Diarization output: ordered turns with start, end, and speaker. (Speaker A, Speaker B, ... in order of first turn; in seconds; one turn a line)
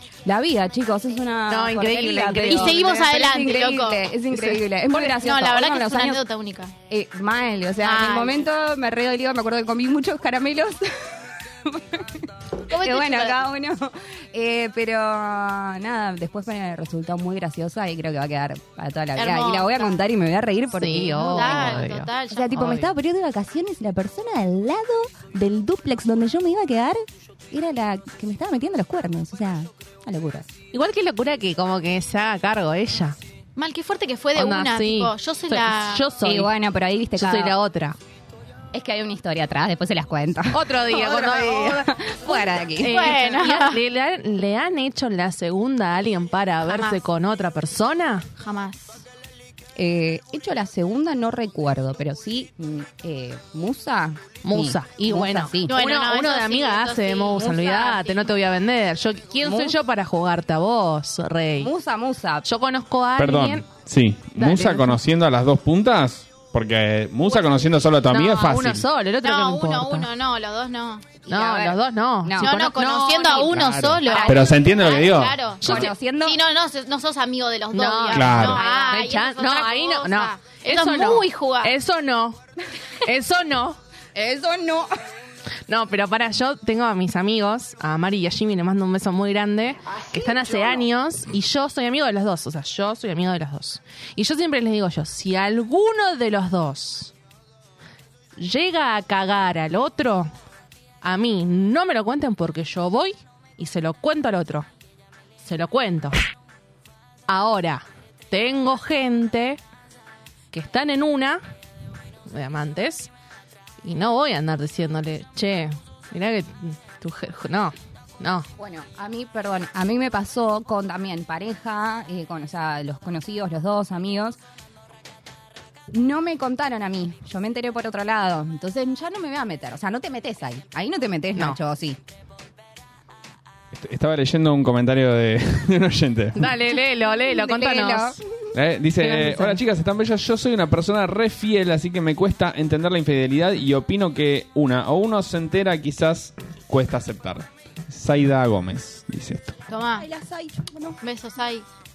Speaker A: 0.2-6.2
Speaker B: 1.5-3.0
Speaker C: 2.5-4.1
Speaker C: 4.9-6.7
Speaker A: 6.9-30.5
Speaker C: 7.8-8.4
Speaker C: 12.7-13.4
Speaker C: 19.1-20.0
Speaker B: 20.8-22.9
Speaker C: 21.2-22.6
Speaker B: 30.7-33.2
Speaker C: 33.5-36.1
Speaker B: 34.4-36.5
Speaker A: 36.2-37.6
Speaker B: 37.1-38.0
Speaker A: 38.7-43.1
Speaker B: 40.5-48.3
Speaker C: 42.8-43.8
Speaker C: 46.6-47.0
Speaker C: 48.4-49.0
Speaker A: 49.8-55.7
Speaker B: 54.4-61.7
Speaker C: 55.7-58.3
Speaker A: 59.4-59.8
Speaker A: 61.6-62.5
Speaker B: 62.5-63.7
Speaker D: 63.2-68.8
Speaker B: 64.3-65.0
Speaker B: 68.1-70.1
Speaker C: 69.2-71.1
Speaker A: 71.2-72.6
Speaker B: 71.3-74.2
Speaker C: 72.4-81.7
Speaker D: 73.5-75.5
Speaker A: 74.0-74.9
Speaker B: 75.6-75.9
Speaker A: 75.6-76.4
Speaker B: 77.7-82.4
Speaker D: 78.1-78.6
Speaker A: 78.6-78.9
Speaker B: 83.0-83.8
Speaker A: 84.1-84.9
Speaker B: 85.7-97.1
Speaker A: 90.1-90.7
Speaker B: 98.4-100.3
Speaker B: 101.0-104.7
Speaker B: 105.4-106.2
Speaker B: 107.3-109.6
Speaker B: 110.5-111.4
Speaker B: 112.3-113.1
Speaker B: 113.8-118.5
Speaker A: 118.6-124.4
Speaker A: 125.9-132.0
Speaker D: 133.7-136.5
Speaker B: 136.4-138.2
Speaker A: 137.1-138.2
Speaker D: 138.5-149.6
Speaker A: 139.0-139.6
Speaker C: 149.7-150.1
Speaker A: 149.8-151.0
Speaker C: 151.0-151.6